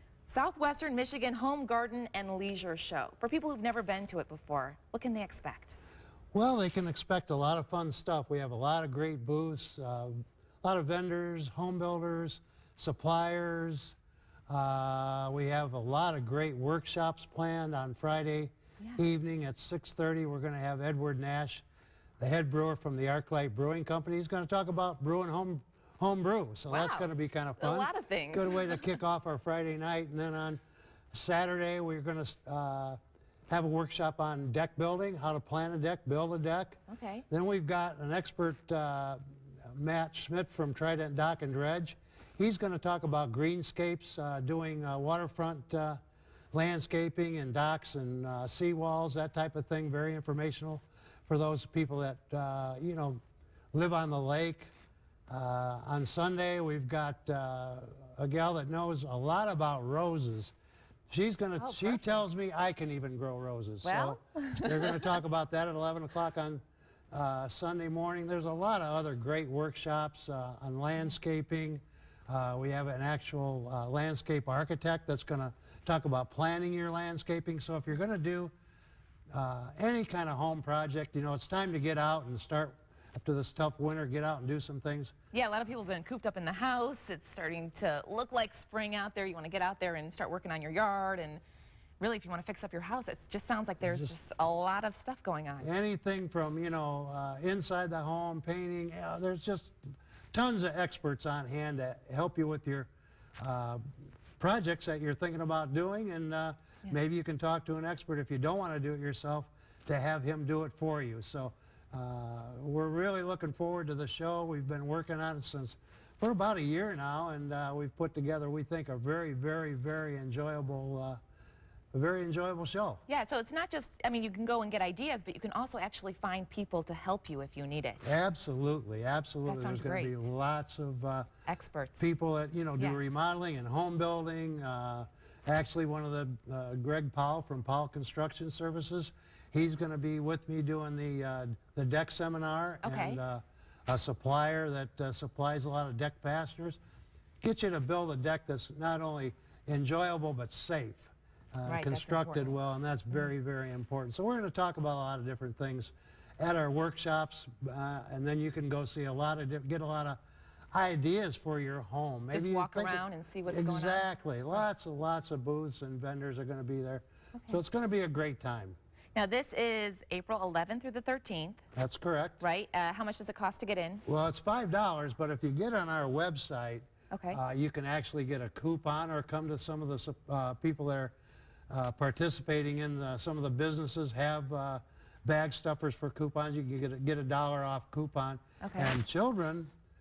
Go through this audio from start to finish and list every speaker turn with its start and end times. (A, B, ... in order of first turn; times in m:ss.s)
0:00.3-0:05.8 A
0:06.3-0:14.0 B
0:14.5-0:21.6 B
0:22.2-0:30.6 B
0:26.7-0:27.1 A
0:27.6-0:28.8 A
0:31.1-0:33.0 B
0:33.5-0:36.8 B
0:36.9-0:37.2 A
0:37.3-0:46.0 B
0:46.5-0:53.2 B
0:53.7-0:54.7 B
0:55.3-1:00.5 B
1:01.1-1:18.5 B
1:01.6-1:02.2 A
1:03.8-1:05.1 A
1:19.3-1:25.1 B
1:25.3-1:31.4 A
1:32.0-1:35.7 A
1:33.8-1:34.1 B
1:35.6-1:43.8 B
1:44.4-2:01.2 B
2:01.9-2:03.0 B
2:03.1-2:08.0 A
2:08.0-2:11.3 B
2:09.4-2:10.3 A
2:11.5-2:12.1 A
2:12.0-2:26.8 B
2:22.8-2:23.2 A
2:27.4-2:40.2 B
2:31.6-2:32.6 A
2:40.7-2:48.8 B
2:42.3-2:44.6 A
2:49.1-2:51.6 A
2:51.7-2:52.4 B
2:52.4-2:54.0 A
2:54.0-3:01.1 B
2:57.1-2:57.4 A
3:01.7-3:09.7 B
3:08.6-3:08.9 A